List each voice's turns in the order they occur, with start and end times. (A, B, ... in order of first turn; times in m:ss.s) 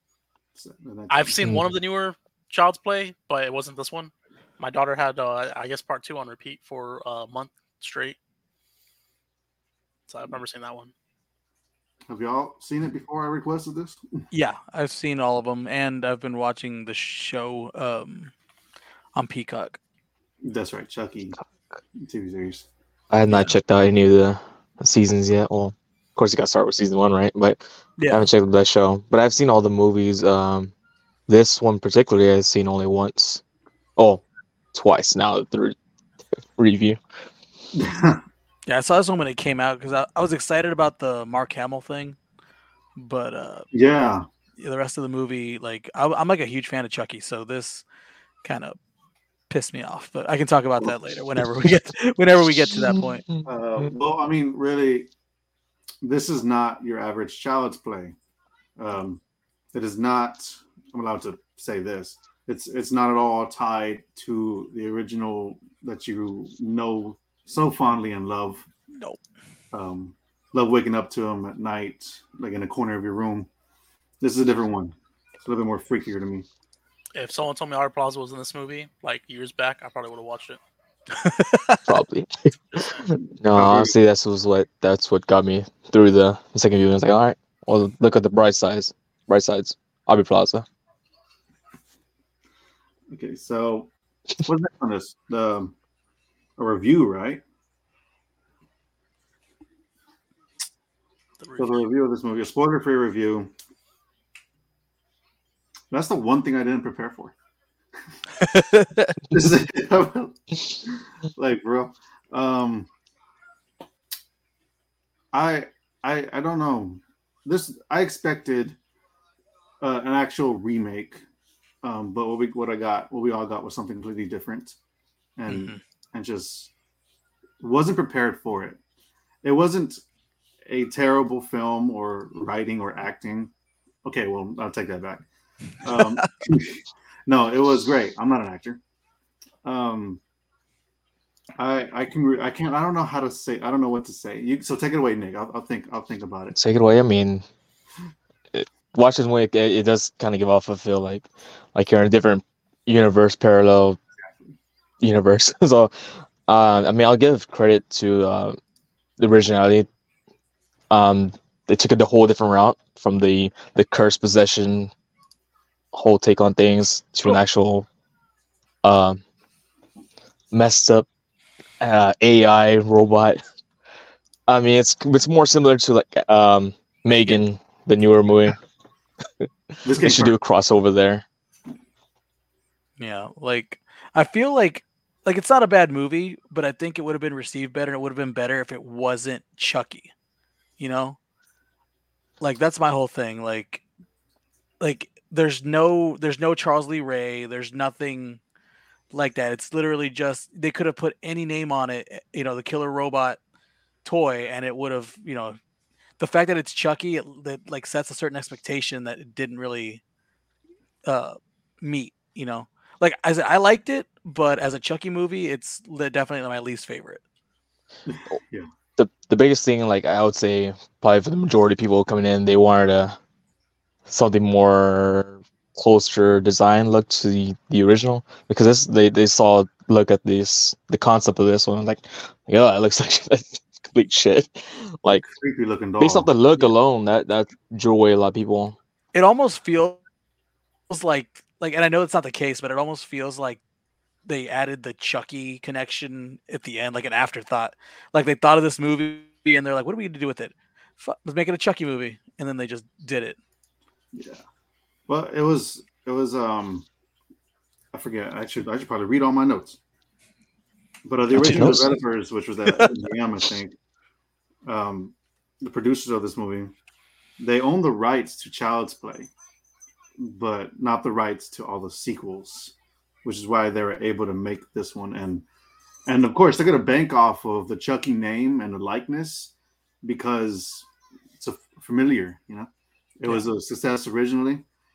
0:00.6-0:01.4 A
0:01.1-0:08.2 B
0:01.4-0:01.7 C
0:10.1-0:10.9 B
0:12.1-0:14.0 A
0:14.3-0:18.3 D
0:19.2-0:19.8 D
0:20.4-0:21.4 A
0:22.0-0:22.7 A
0:23.1-0:30.7 C
0:28.0-0:28.3 D
0:31.3-0:33.4 C
0:34.0-0:35.8 C
0:36.6-0:37.0 C
0:37.7-0:38.2 A
0:38.7-0:42.2 D
0:43.0-0:43.7 D
0:43.7-0:44.2 A
0:44.6-0:47.8 D
0:48.4-0:48.8 D
0:49.5-0:53.2 D
0:52.7-0:53.9 C
0:53.4-0:55.1 A
0:56.0-0:58.2 A
0:58.8-0:59.2 A
0:59.7-1:08.7 A
1:09.7-1:13.5 A
1:14.2-1:16.5 A
1:17.1-1:20.6 B
1:21.1-1:21.8 D
1:21.9-1:30.7 C
1:23.1-1:23.9 A
1:33.1-1:33.9 A
1:34.4-1:35.8 A
1:36.6-1:37.4 A
1:41.4-1:41.8 B
1:41.6-1:43.5 A
1:45.9-1:47.4 A
1:48.4-1:49.2 D
1:49.3-1:52.9 A
1:55.3-1:58.8 A
1:59.8-2:01.2 A
2:01.8-2:04.8 A
2:05.4-2:06.7 A
2:05.5-2:05.8 D
2:07.6-2:08.8 A
2:09.4-2:10.0 A
2:10.7-2:13.5 A
2:14.0-2:15.2 A
2:15.8-2:18.8 A
2:19.6-2:20.2 A
2:21.6-2:26.6 A
2:26.6-2:27.4 C
2:28.5-2:34.0 C
2:34.2-2:34.5 A
2:35.0-2:38.6 C
2:39.2-2:39.9 C
2:40.9-2:44.9 C
2:45.9-2:47.9 C
2:48.8-2:49.2 C
2:50.5-2:51.1 C
2:51.8-2:53.4 C
2:54.5-2:58.6 C
2:59.8-3:00.4 A
3:00.0-3:01.2 C
3:03.0-3:10.1 D
3:10.8-3:11.2 D
3:12.4-3:13.8 D
3:14.8-3:18.4 D
3:19.1-3:23.4 D
3:24.0-3:25.6 D
3:26.2-3:30.0 D
3:31.1-3:37.2 D
3:38.1-3:38.7 A
3:39.0-3:43.2 C
3:44.1-3:55.2 C
3:55.1-3:56.7 A
3:56.0-3:58.8 C
3:59.1-4:00.0 D
4:00.9-4:03.6 D
4:04.2-4:13.4 D
4:14.1-4:14.4 A
4:15.1-4:16.9 A
4:17.9-4:19.8 A
4:21.0-4:23.8 A
4:21.3-4:22.0 C
4:21.5-4:21.8 D
4:22.7-4:22.9 D
4:24.6-4:26.7 A
4:27.4-4:29.3 A
4:30.2-4:35.4 A
4:36.1-4:40.9 A
4:41.4-4:44.6 A